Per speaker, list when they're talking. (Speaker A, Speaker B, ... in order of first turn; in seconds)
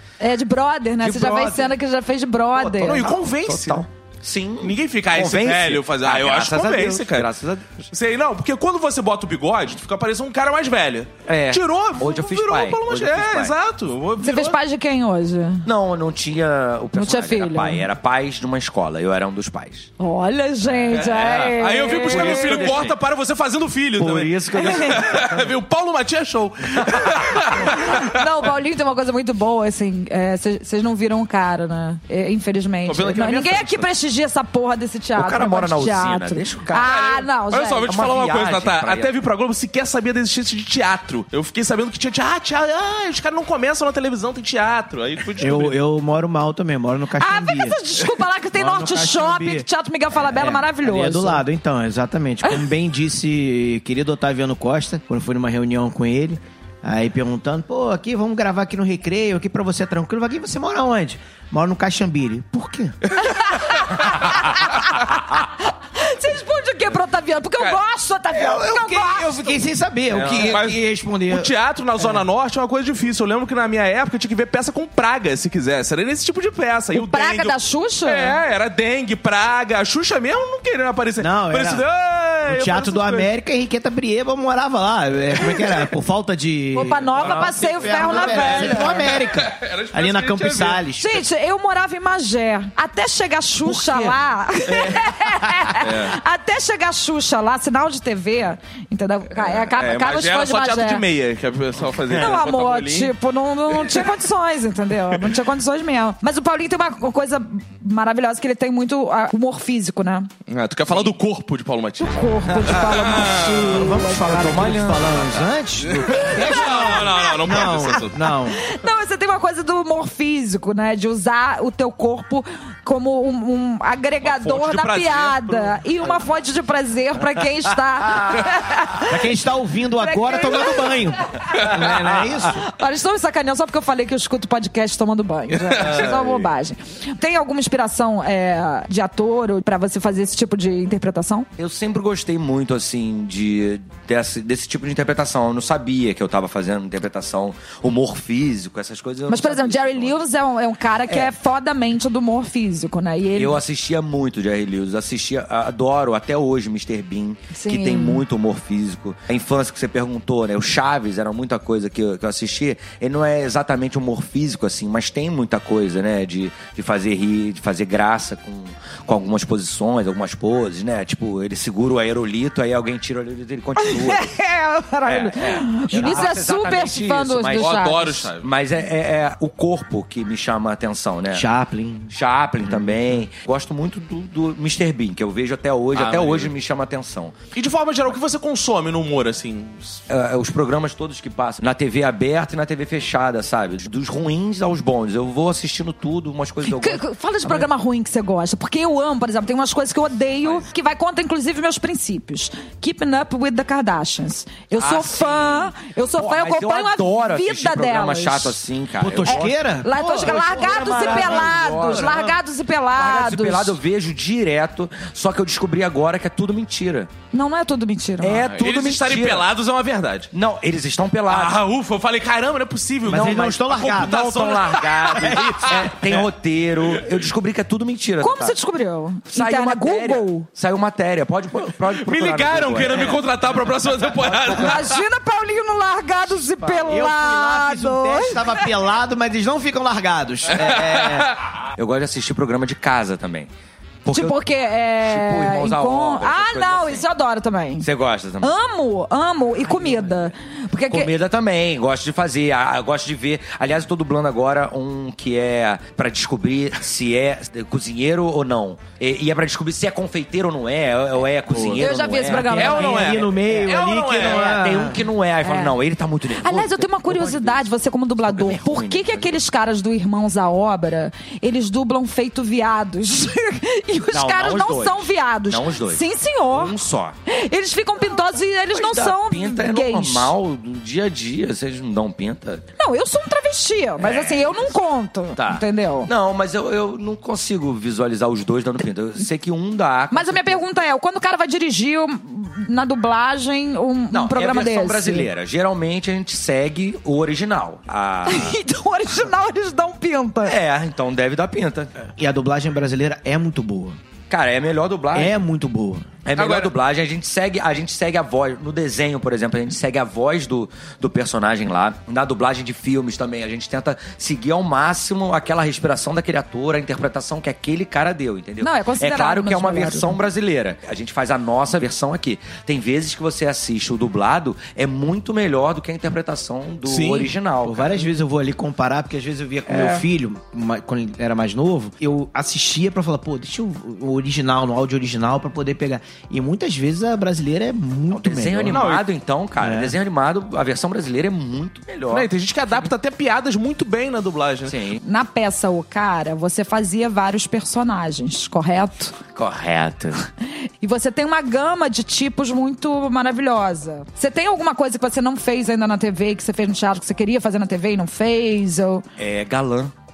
Speaker A: 0.2-3.1, 14.2-15.7, 17.0-17.9, 20.0-22.8, 24.6-25.0, 27.6-38.0, 47.2-51.4, 63.3-69.6, 76.9-78.4, 86.7-89.2, 91.0-101.0, 102.1-110.3, 112.0-114.4, 116.1-129.2, 130.0-132.0, 132.5-141.5, 149.3-153.6, 157.5-158.2, 173.8-178.2, 196.6-208.6, 209.2-213.8, 217.3-218.4, 228.2-230.5, 234.5-238.7, 244.1-247.9, 248.4-251.1, 261.8-263.2, 265.4-265.8, 266.4-280.3, 282.8-286.1, 290.1-295.3, 298.2-300.6, 318.6-320.1, 345.0-349.1, 350.8-359.0
Speaker B: 1.0-1.8, 2.5-7.9, 11.2-13.6, 15.6-19.9, 20.7-22.9, 24.0-25.5, 26.8-27.6, 35.1-36.9, 37.8-39.1, 70.1-70.5, 87.2-87.6, 93.7-94.1, 114.0-115.5, 141.6-150.2, 151.1-151.3, 153.3-174.3, 175.1-181.4, 182.1-187.3, 190.1-197.7, 200.4-200.7, 204.7-212.4, 212.9-217.1, 218.2-219.5, 220.3-221.6, 223.1-228.6, 229.3-233.2, 241.6-243.5, 244.0-244.4, 245.0-247.1, 247.8-248.5, 249.6-250.3, 250.9-263.0, 264.2-269.4, 274.1-277.1, 278.7-282.6, 284.0-284.7, 285.4-290.6, 294.1-298.6, 300.4-301.9, 304.3-305.4, 306.2-328.1, 329.7-330.0, 338.1-342.3, 344.6-345.0, 349.3-350.3, 359.2-359.9
Speaker C: 2.8-3.8, 4.6-7.3, 7.9-14.6, 20.9-28.1, 32.9-33.9, 36.8-45.8, 70.1-83.3, 85.5-85.8, 87.3-90.8, 94.7-95.1, 95.7-96.2, 99.7-103.1, 110.5-113.8, 115.8-118.3, 124.2-126.2, 135.5-136.4, 177.6-178.5, 185.9-186.5, 187.5-190.0, 218.3-220.3, 221.3-226.3, 231.8-235.0, 240.6-241.3, 262.3-264.9, 306.3-306.7, 326.9-327.3, 338.7-339.0, 342.1-344.8
Speaker D: 45.4-47.8, 48.5-63.2, 68.3-71.5, 81.2-81.8, 82.5-91.2, 113.6-118.7, 129.0-132.7, 181.3-182.1, 209.0-212.3, 223.1-224.2, 236.8-241.3, 261.5-261.8, 262.6-265.0, 302.1-304.0, 305.1-306.1, 327.6-338.9, 339.6-339.9